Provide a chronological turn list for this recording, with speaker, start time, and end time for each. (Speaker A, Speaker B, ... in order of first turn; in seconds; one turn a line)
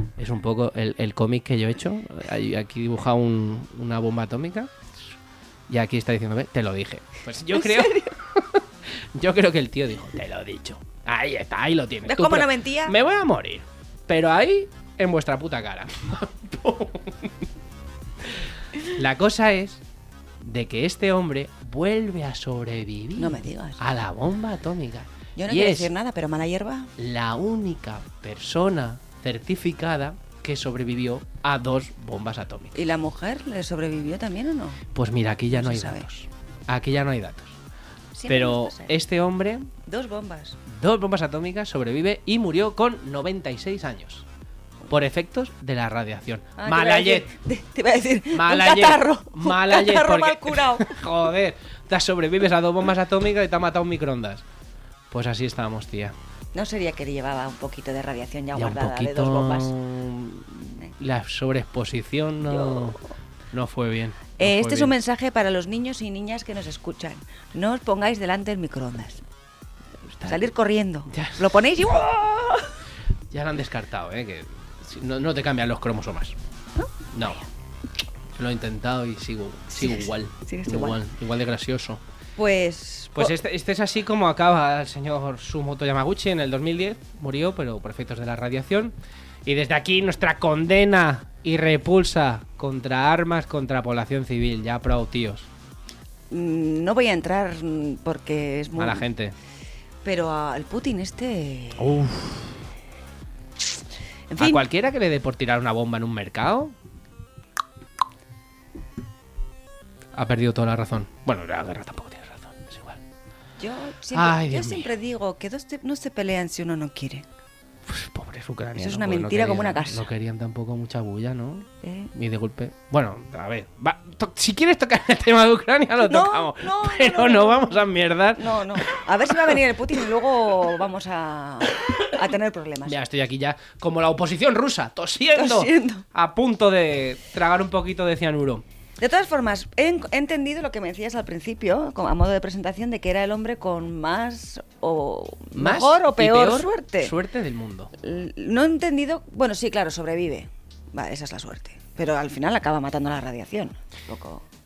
Speaker A: 0.2-4.8
Speaker A: 5.7-17.5
Speaker B: 7.5-8.1
Speaker B: 12.1-12.9
Speaker A: 18.2-19.8
Speaker A: 20.4-25.9
Speaker B: 23.2-23.8
Speaker B: 25.4-26.9
Speaker A: 27.0-32.8
Speaker B: 32.7-34.8
Speaker A: 34.9-37.6
Speaker B: 35.5-36.0
Speaker B: 38.1-39.0
Speaker A: 38.3-39.7
Speaker B: 39.8-40.6
Speaker A: 40.6-44.2
Speaker A: 44.9-47.3
Speaker B: 46.6-51.0
Speaker A: 48.3-54.4
Speaker A: 55.1-56.1
Speaker B: 56.5-59.7
Speaker A: 58.5-63.0
Speaker B: 62.5-63.0
Speaker A: 63.5-64.9
Speaker B: 64.4-69.2
Speaker A: 70.0-70.4
Speaker B: 70.2-72.7
Speaker A: 71.1-71.6
Speaker A: 73.3-76.3
Speaker A: 77.1-77.4
Speaker A: 78.3-82.0
Speaker B: 79.7-81.0
Speaker B: 82.4-83.3
Speaker A: 83.2-88.9
Speaker A: 89.4-95.5
Speaker B: 96.3-99.1
Speaker A: 98.8-99.3
Speaker B: 100.0-102.0
Speaker A: 101.8-102.5
Speaker B: 104.3-104.6
Speaker A: 104.4-106.7
Speaker A: 110.1-113.0
Speaker B: 113.6-117.2
Speaker A: 114.1-114.9
Speaker A: 117.8-129.6
Speaker B: 118.8-120.1
Speaker B: 121.8-122.1
Speaker B: 126.0-133.0
Speaker A: 132.8-138.6
Speaker B: 135.3-136.0
Speaker B: 139.0-147.1
Speaker A: 145.6-147.9
Speaker B: 148.0-154.4